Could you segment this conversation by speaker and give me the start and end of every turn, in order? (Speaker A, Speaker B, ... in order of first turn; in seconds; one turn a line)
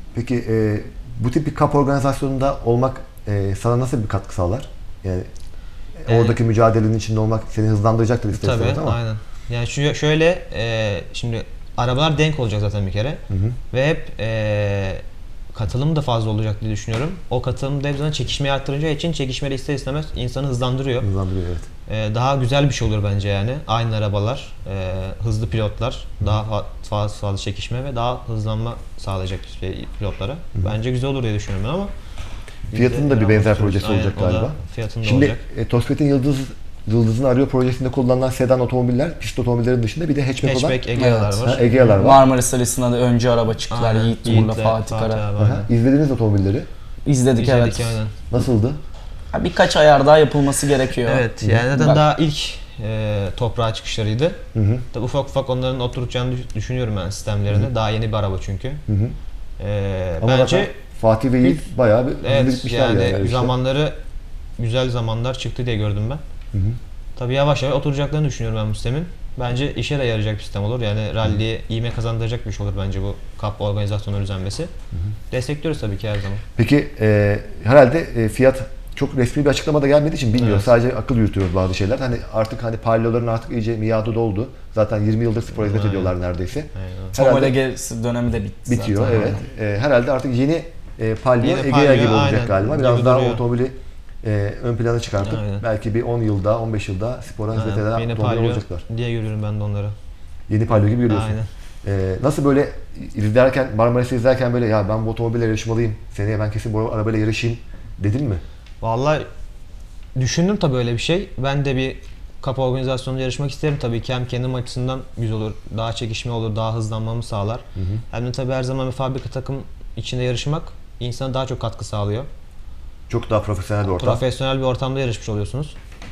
Speaker A: 0.1-5.3
Speaker A: 6.0-9.0
Speaker B: 6.1-6.4
Speaker B: 8.3-21.1
Speaker A: 13.3-13.6
Speaker A: 21.0-21.7
Speaker B: 21.9-31.9
Speaker B: 32.7-35.4
Speaker A: 32.7-42.2
Speaker B: 40.4-42.0
Speaker C: 41.0-45.2
Speaker B: 43.7-45.7
Speaker A: 45.4-46.7
Speaker C: 47.0-48.0
Speaker B: 47.4-48.2
Speaker A: 48.3-48.8
Speaker C: 49.3-52.0
Speaker B: 51.0-54.4
Speaker A: 54.5-54.9
Speaker B: 54.9-58.8
Speaker A: 58.9-59.2
Speaker B: 59.6-60.7
Speaker A: 60.2-63.5
Speaker B: 62.2-64.0
Speaker B: 64.6-66.2
Speaker A: 66.5-66.8
Speaker B: 67.2-74.7
Speaker B: 75.3-76.4
Speaker A: 76.6-87.6
Speaker B: 80.4-80.7
Speaker B: 85.6-86.1
Speaker B: 86.8-87.2
Speaker C: 87.2-89.5
Speaker A: 88.7-98.8
Speaker B: 91.4-93.4
Speaker B: 95.2-95.6
Speaker B: 97.5-100.0
Speaker A: 100.5-108.4
Speaker B: 101.1-101.5
Speaker B: 108.8-109.3
Speaker B: 110.2-122.3
Speaker A: 117.8-118.0
Speaker A: 123.1-124.2
Speaker B: 123.9-125.7